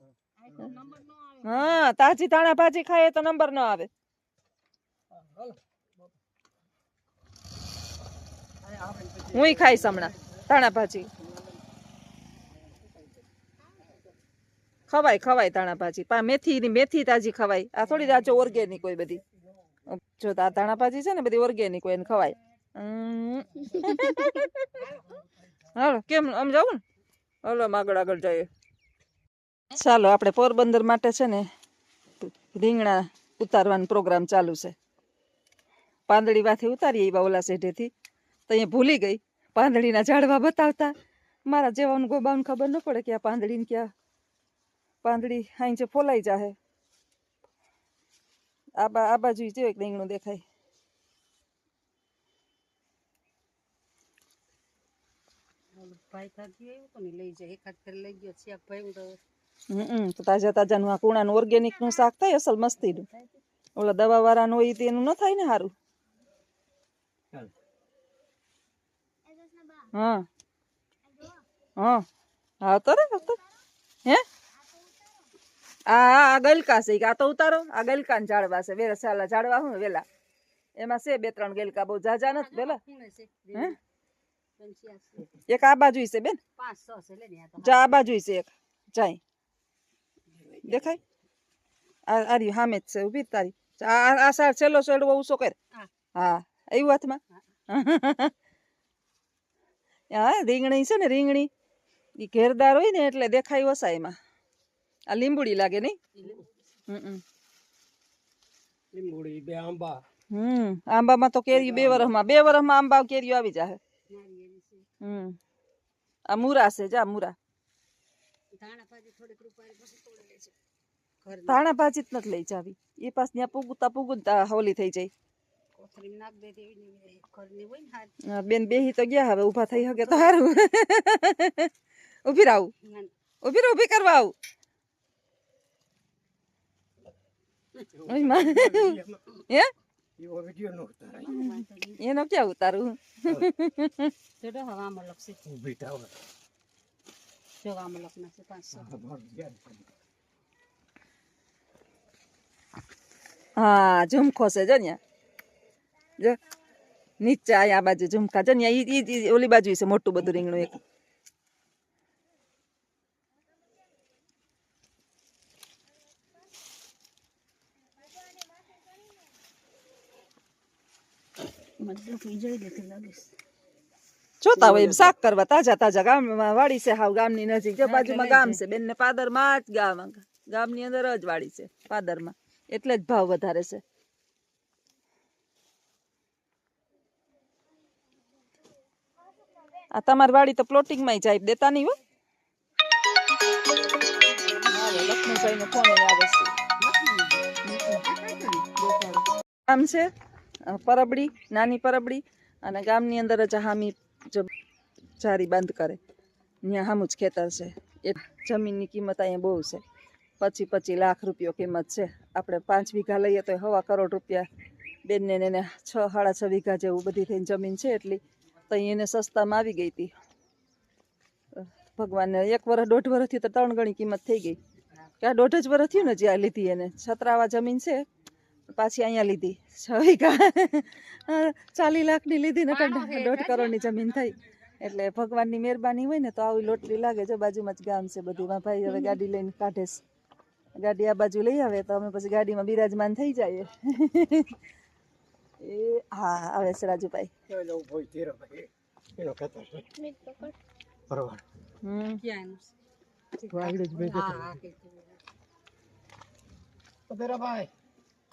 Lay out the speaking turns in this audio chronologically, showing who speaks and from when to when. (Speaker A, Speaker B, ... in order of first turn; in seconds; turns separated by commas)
Speaker A: 0.4-1.8, Speaker B: 1.4-3.9, Speaker A: 8.6-10.0, Speaker B: 9.3-11.1, Speaker B: 14.9-19.2, Speaker B: 19.9-24.9, Speaker B: 25.8-26.8, Speaker B: 27.4-28.5, Speaker B: 29.7-31.5, Speaker B: 32.2-34.8, Speaker B: 36.1-37.9, Speaker B: 38.5-40.9, Speaker B: 41.5-43.9, Speaker B: 45.0-46.6, Speaker B: 48.8-50.4, Speaker A: 55.7-59.2, Speaker B: 59.7-63.1, Speaker B: 63.8-65.7, Speaker C: 69.3-69.9, Speaker B: 69.9-70.3, Speaker C: 71.1-71.4, Speaker B: 71.8-72.0, Speaker B: 72.6-73.4, Speaker B: 75.9-80.0, Speaker B: 80.8-82.8, Speaker A: 82.3-83.8, Speaker A: 84.6-85.3, Speaker B: 85.5-86.4, Speaker A: 86.6-88.0, Speaker B: 87.6-89.2, Speaker A: 90.3-91.0, Speaker B: 90.7-91.0, Speaker B: 92.1-95.5, Speaker B: 96.2-98.3, Speaker B: 100.1-101.5, Speaker B: 102.2-104.2, Speaker B: 105.1-106.0, Speaker A: 106.2-106.4, Speaker B: 106.9-107.2, Speaker D: 109.0-109.6, Speaker B: 110.3-113.8, Speaker A: 114.1-114.9, Speaker B: 115.0-115.4, Speaker B: 116.3-117.4, Speaker A: 118.5-120.5, Speaker A: 121.2-121.6, Speaker B: 121.5-125.1, Speaker A: 125.8-128.1, Speaker B: 128.3-131.7, Speaker A: 129.7-130.4, Speaker B: 132.2-132.7, Speaker A: 132.8-133.1, Speaker B: 133.4-134.3, Speaker A: 137.8-138.1, Speaker B: 138.1-139.7, Speaker D: 138.1-139.1, Speaker D: 140.2-141.3, Speaker A: 141.1-142.0, Speaker B: 141.3-144.1, Speaker A: 144.4-145.6, Speaker D: 145.5-146.1, Speaker A: 147.6-148.9, Speaker D: 148.8-149.8, Speaker B: 153.6-155.0, Speaker B: 157.2-160.8, Speaker A: 171.8-173.3, Speaker B: 174.4-183.8, Speaker A: 177.8-178.6, Speaker B: 189.9-192.0, Speaker B: 194.7-196.5, Speaker A: 196.8-197.4, Speaker B: 197.7-198.0, Speaker A: 198.0-198.8, Speaker B: 198.8-200.1, Speaker B: 200.7-204.5, Speaker B: 205.2-206.0, Speaker B: 206.6-209.8, Speaker B: 210.4-214.5, Speaker B: 215.1-220.1, Speaker B: 221.6-224.6, Speaker B: 225.2-228.0, Speaker B: 228.7-240.0, Speaker A: 232.7-233.8, Speaker C: 238.9-239.2, Speaker B: 240.8-244.6, Speaker B: 245.6-247.3, Speaker D: 247.5-249.9, Speaker C: 250.0-250.6, Speaker D: 251.1-251.4, Speaker B: 251.8-252.2, Speaker A: 252.2-252.7, Speaker A: 253.3-255.2, Speaker D: 257.1-257.7